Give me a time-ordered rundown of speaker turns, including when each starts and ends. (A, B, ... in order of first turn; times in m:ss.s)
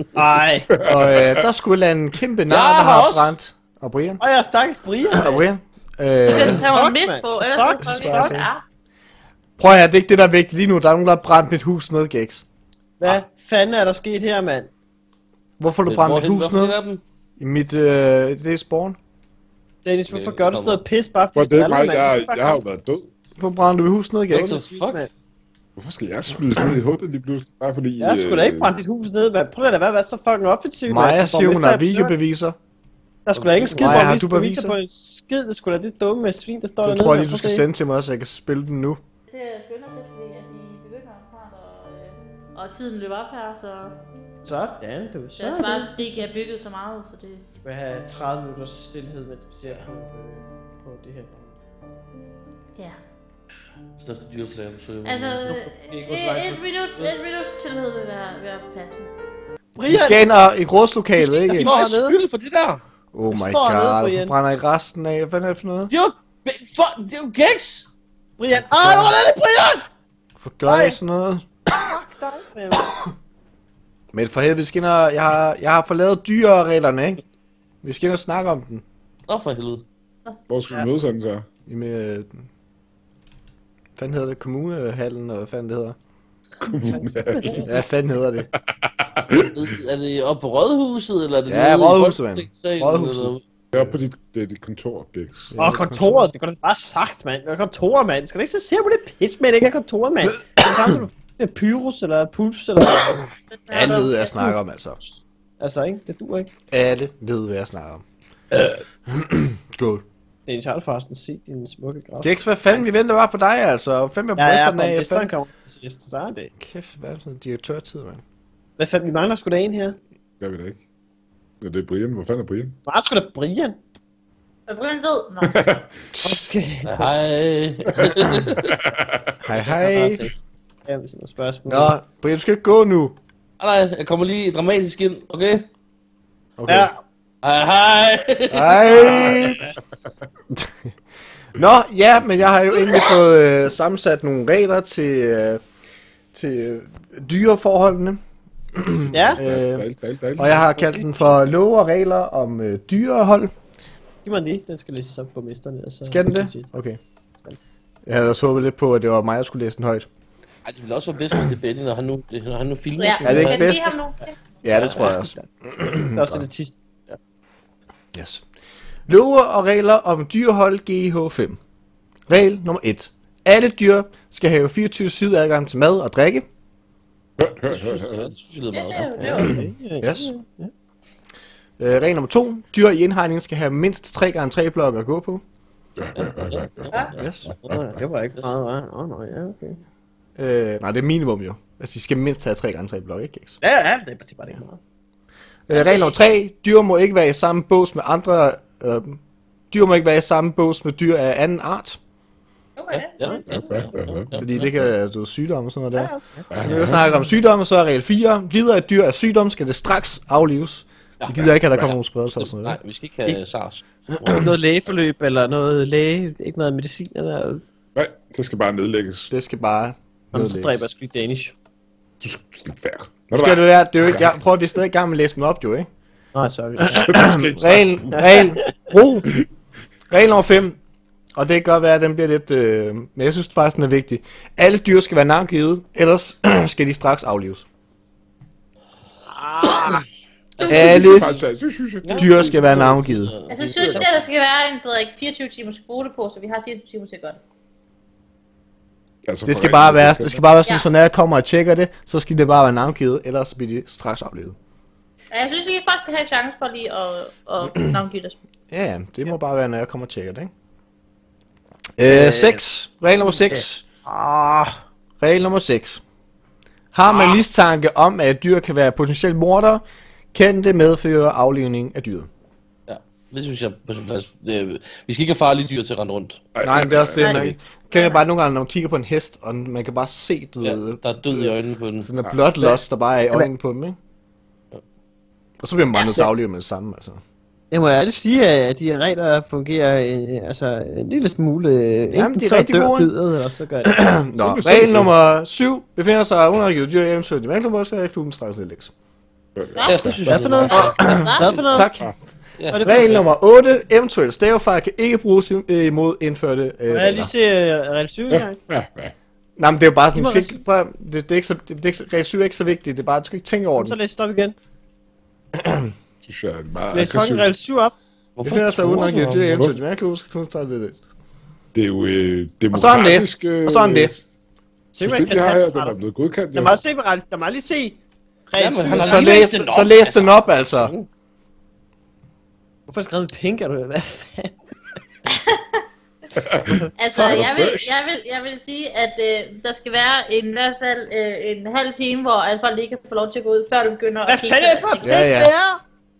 0:00.1-0:00.7 A
0:00.7-0:01.5 B
0:00.8-0:04.2 C
0:02.5-0:03.4 D
0:04.2-0:05.5 A
0:05.1-0:06.7 C
0:06.3-0:08.4 A
0:06.3-0:08.6 E
0:07.7-0:08.5 C
0:09.6-0:12.4 C
0:13.0-0:14.7 A
0:15.6-0:16.8 C
0:15.8-0:17.0 D
0:17.4-0:19.0 C
0:19.8-0:22.6 A
0:20.1-0:20.8 D
0:21.3-0:23.2 B
0:23.4-0:24.6 C
0:24.3-0:25.1 D
0:24.5-0:25.1 A
0:25.8-0:28.8 B
0:28.0-0:32.1 A
0:30.9-0:32.6 C
0:33.2-0:37.6 A
0:33.3-0:34.0 D
0:33.8-0:34.8 C
0:36.8-0:39.0 C
0:39.3-0:43.9 E
0:44.4-0:46.3 A
0:45.4-0:47.6 E
0:47.6-0:51.6 A
0:54.0-0:55.6 D
0:55.0-0:59.1 E
0:55.4-0:56.6 A
0:59.8-1:00.3 A
0:59.8-1:01.7 C
1:01.2-1:02.8 D
1:01.5-1:02.2 A
1:03.1-1:05.9 C
1:03.3-1:04.3 A
1:05.9-1:07.9 D
1:08.4-1:09.8 A
1:08.5-1:09.1 C
1:10.4-1:11.9 C
1:10.6-1:11.0 A
1:11.7-1:12.9 A
1:14.1-1:17.2 C
1:17.8-1:18.8 C
1:19.3-1:19.8 D
1:20.5-1:21.5 B
1:21.7-1:22.5 C
1:24.0-1:26.0 C
1:26.6-1:27.7 B
1:27.4-1:27.6 D
1:27.6-1:28.5 C
1:28.6-1:29.8 B
1:29.3-1:33.4 D
1:31.5-1:33.9 C
1:33.7-1:35.6 B
1:35.5-1:36.3 C
1:35.6-1:43.2 A
1:43.6-1:44.6 E
1:43.7-1:45.0 C
1:45.6-1:46.5 A
1:46.7-1:50.0 C
1:50.5-1:52.9 A
1:52.2-1:55.3 C
1:54.4-1:56.5 A
1:56.6-1:58.2 C
1:58.8-2:00.0 A
2:00.4-2:00.8 B
2:01.6-2:02.8 B
2:02.8-2:03.8 A
2:04.7-2:05.6 E
2:05.4-2:05.9 B
2:06.1-2:06.4 C
2:06.2-2:07.1 A
2:06.8-2:08.8 D
2:08.8-2:09.3 B
2:09.4-2:10.3 C
2:09.5-2:11.9 A
2:11.7-2:13.2 C
2:13.6-2:15.7 D
2:16.6-2:16.9 C
2:16.7-2:17.0 A
2:17.4-2:19.4 D
2:18.5-2:19.7 C
2:19.0-2:19.3 B
2:21.5-2:25.6 C
2:26.3-2:28.2 C
2:28.7-2:33.5 C
2:29.0-2:30.6 B
2:29.1-2:29.4 A
2:30.5-2:31.4 A
2:34.2-2:36.7 A
2:36.1-2:37.0 C
2:38.1-2:40.1 C
2:40.6-2:43.9 D
2:43.0-2:44.3 E
2:43.2-2:44.0 C
2:44.6-2:46.4 C
2:44.7-2:45.5 A
2:44.8-2:45.2 D
2:46.1-2:47.2 A
2:48.1-2:48.4 C
2:49.1-2:51.6 C
2:52.3-2:56.4 C
2:57.4-2:58.3 B
2:57.7-2:58.3 A
2:58.1-2:59.5 D
2:58.7-2:59.6 E
2:59.2-3:00.7 A
2:59.4-3:00.3 C
3:01.8-3:05.4 C
3:06.0-3:08.0 B
3:06.1-3:07.2 D
3:07.2-3:07.6 C
3:07.6-3:09.8 A
3:10.4-3:13.6 C
3:13.6-3:14.8 A
3:15.7-3:19.2 C
3:15.7-3:16.2 E
3:19.7-3:22.0 C
3:22.8-3:23.4 E
3:22.9-3:24.9 D
3:23.2-3:23.8 A
3:23.5-3:24.4 B
3:24.4-3:32.8 C
3:25.9-3:27.3 A
3:26.5-3:27.0 B
3:31.2-3:34.5 D
3:34.4-3:37.6 A
3:37.9-3:39.3 B
3:39.3-3:40.8 C
3:40.3-3:41.5 A
3:42.2-3:44.3 B
3:43.3-3:45.9 C
3:46.3-3:47.2 A
3:46.8-3:49.4 C
3:46.9-3:48.3 B
3:48.2-3:48.7 A
3:50.1-3:50.8 C
3:51.3-3:57.7 C
3:59.3-4:00.0 A
4:00.6-4:01.4 D
4:00.6-4:02.8 B
4:00.6-4:01.4 C
4:02.0-4:04.2 D
4:02.2-4:03.3 C
4:03.5-4:07.4 E
4:09.2-4:10.4 B
4:09.4-4:14.6 C
4:15.3-4:18.4 E
4:18.7-4:20.5 C
4:22.0-4:23.8 C
4:22.0-4:22.6 D
4:23.2-4:24.7 D
4:25.2-4:26.0 C
4:26.9-4:32.3 C
4:27.0-4:27.4 D
4:32.9-4:36.4 D
4:36.5-4:37.5 B
4:36.6-4:44.0 C
4:37.2-4:38.2 E
4:40.6-4:42.1 D
4:45.6-4:47.2 C
4:47.7-4:54.0 A
4:52.1-4:53.1 C
4:53.8-4:58.9 C
4:54.4-4:55.1 B
4:59.5-5:00.3 B
4:59.8-5:01.9 E
4:59.8-5:01.2 D
5:00.2-5:01.9 A
5:00.7-5:02.1 C
5:02.6-5:03.2 D
5:02.7-5:03.2 A
5:02.8-5:07.3 C
5:06.9-5:08.6 A
5:08.3-5:09.1 B
5:09.6-5:14.0 C
5:10.1-5:10.6 A
5:13.8-5:14.6 A
5:15.6-5:15.9 C
5:16.2-5:17.5 B
5:16.9-5:18.0 A
5:18.4-5:19.7 D
5:18.4-5:21.0 C
5:21.7-5:24.2 B
5:22.7-5:24.1 C
5:25.0-5:26.0 A
5:25.0-5:26.8 B
5:26.5-5:29.4 A
5:28.6-5:31.1 D
5:28.9-5:30.9 C
5:32.9-5:34.6 A
5:35.3-5:35.8 E
5:36.4-5:37.9 B
5:36.7-5:37.4 A
5:37.0-5:45.4 E
5:44.3-5:45.8 A
5:45.0-5:45.5 C